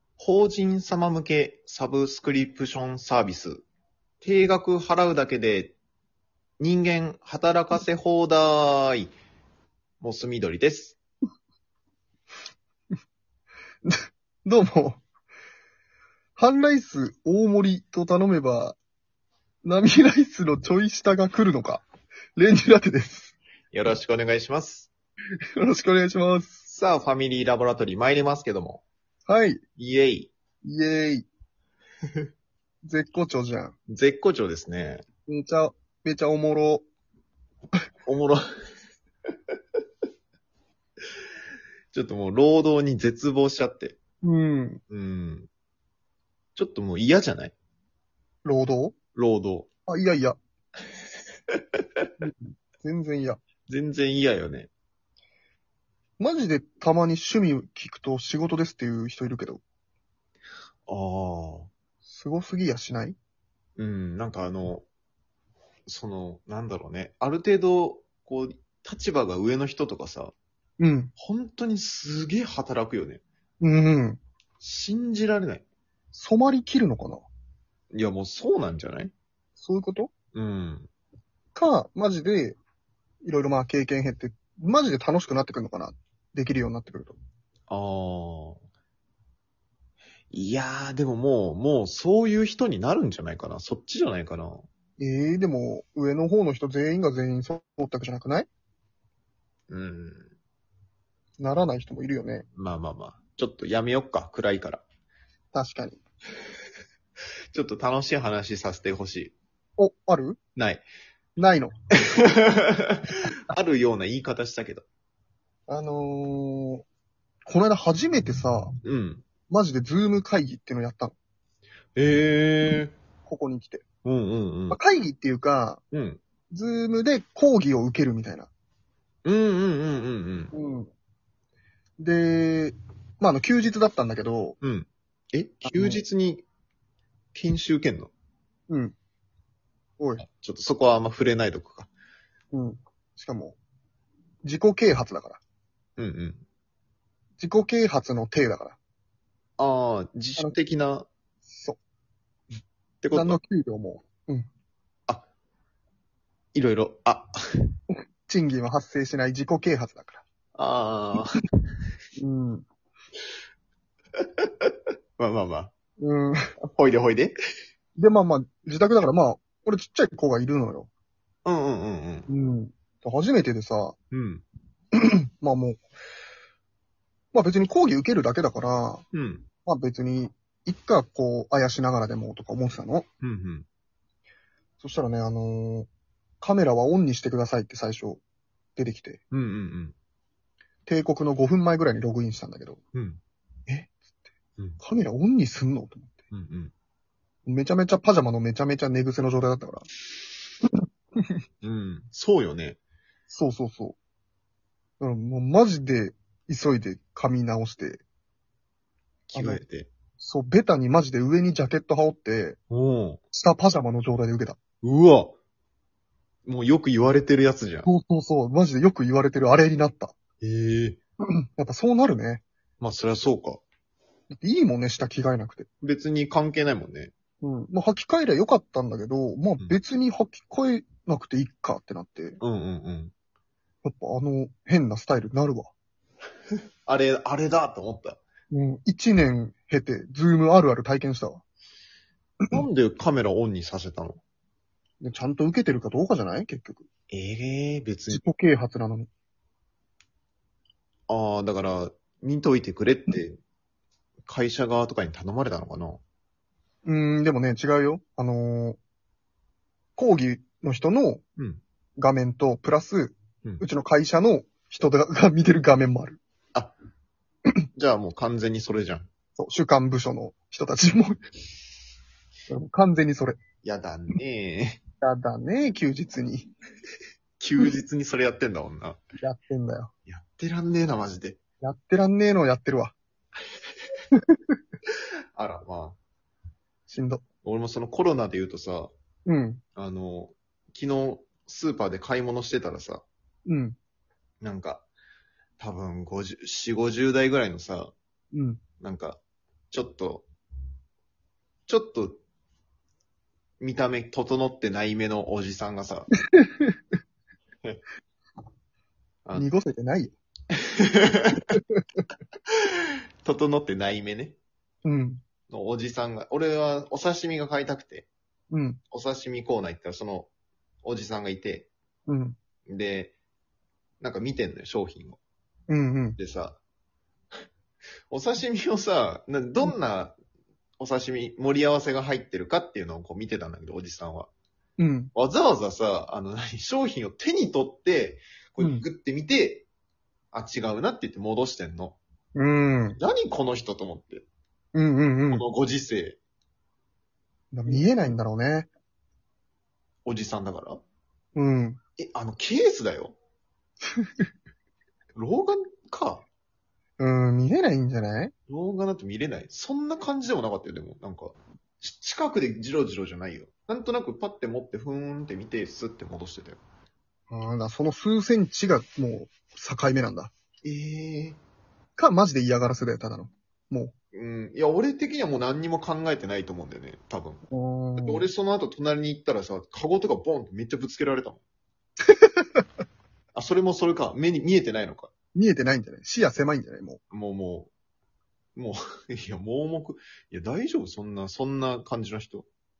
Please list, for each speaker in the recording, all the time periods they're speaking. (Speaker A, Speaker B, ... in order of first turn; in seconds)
Speaker A: 0.2-3.6, 4.2-5.8, 6.6-9.1, 10.0-11.0, 23.7-24.9, 26.7-28.8, 29.8-30.3, 33.9-35.0, 38.0-38.4, 41.9-44.0, 44.9-45.5, 46.5-47.5, 49.1-49.7, 51.5-52.0, 53.7-54.7, 60.9-61.7, 63.8-64.8, 65.9-70.3, 71.2-73.2, 74.6-75.6, 77.9-79.1, 80.3-80.9, 87.7-88.6, 90.3-94.7, 99.7-100.3, 102.5-104.8, 107.5-109.3, 110.5-110.8, 112.2-114.8, 118.8-119.2, 122.0-122.9, 124.0-124.8, 125.9-126.2, 129.2-130.5, 134.6-136.4, 137.3-138.1, 140.2-141.9, 146.0-146.4, 149.6-151.1, 153.0-153.4, 156.5-157.3, 160.5-161.3, 164.4-165.7, 166.7-167.3, 171.4-172.3, 174.1-174.4, 179.1-179.4, 183.2-183.7, 189.3-189.9, 192.9-193.2, 196.3-196.7, 201.6-202.8, 209.3-209.9, 212.7-213.2, 214.8-215.3, 216.4-217.9, 220.4-221.0, 222.8-223.6, 225.8-227.1, 232.4-233.1, 236.8-238.2, 242.5-244.2, 247.1-248.2, 251.1-253.4, 254.2-256.0, 267.8-269.1, 273.6-274.8, 277.4-279.0, 280.1-281.4, 285.4-286.0, 287.4-288.9, 289.8-293.0, 294.4-294.9, 295.6-297.9, 298.8-299.2, 299.7-300.3, 301.7-302.2, 303.6-306.1, 310.5-311.4, 313.2-314.4, 315.5-318.1, 318.9-320.3, 320.8-321.7, 322.7-323.1, 324.0-325.2, 326.2-326.6, 328.1-330.2, 330.8-334.3, 335.1-339.7, 340.3-342.0, 343.0-344.2, 345.3-346.2, 350.0-350.8, 352.0-353.2, 355.1-356.2, 358.5-366.6, 370.6-371.4, 374.1-377.4, 378.0-381.4, 383.3-385.1, 387.1-387.7, 388.6-392.5
Speaker B: 13.8-15.0, 16.4-18.8, 19.6-21.8, 22.4-23.3, 25.6-26.6, 29.3-29.6, 30.6-31.3, 32.8-33.8, 35.3-36.8, 44.2-44.8, 48.4-48.9, 49.9-50.4, 52.2-53.4, 56.2-59.6, 62.1-63.2, 70.8-71.1, 73.6-74.2, 76.1-77.2, 79.6-80.1, 81.5-82.6, 83.2-87.2, 95.0-98.5, 101.4-102.5, 105.5-106.0, 109.8-110.4, 111.4-112.3, 115.7-116.8, 117.5-118.7, 119.5-121.1, 123.2-123.8, 124.7-125.8, 126.5-128.5, 130.5-130.9, 132.0-134.6, 135.6-136.0, 138.7-138.9, 140.0-140.2, 142.5-143.6, 144.4-145.4, 147.4-148.8, 151.5-151.8, 153.1-154.5, 158.3-160.2, 162.2-162.7, 166.0-166.5, 168.0-170.9, 172.3-173.9, 174.9-175.8, 177.3-179.0, 179.7-183.1, 184.8-185.9, 186.4-188.2, 188.8-189.2, 190.9-192.8, 193.7-193.9, 194.8-196.2, 197.4-199.9, 203.3-203.9, 205.0-208.0, 209.3-209.6, 210.2-212.6, 213.3-214.6, 217.8-220.1, 221.2-222.4, 224.3-225.7, 227.4-232.4, 233.8-235.7, 238.5-241.4, 245.0-246.9, 248.1-249.1, 256.8-258.8, 260.0-261.2, 262.0-266.2, 269.4-271.2, 272.5-273.4, 275.0-276.5, 279.2-279.9, 281.6-282.9, 286.9-287.2, 289.2-289.6, 293.4-293.8, 298.3-298.6, 306.3-306.8, 309.3-310.1, 314.8-315.2, 318.5-318.8, 322.1-322.4, 325.7-326.2, 334.8-335.1, 338.6-338.8, 342.3-343.0, 344.7-345.4, 347.5-348.7, 351.3-351.8, 357.0-358.3, 367.3-370.3, 372.0-373.9, 377.5-378.3, 382.2-382.6, 385.3-387.0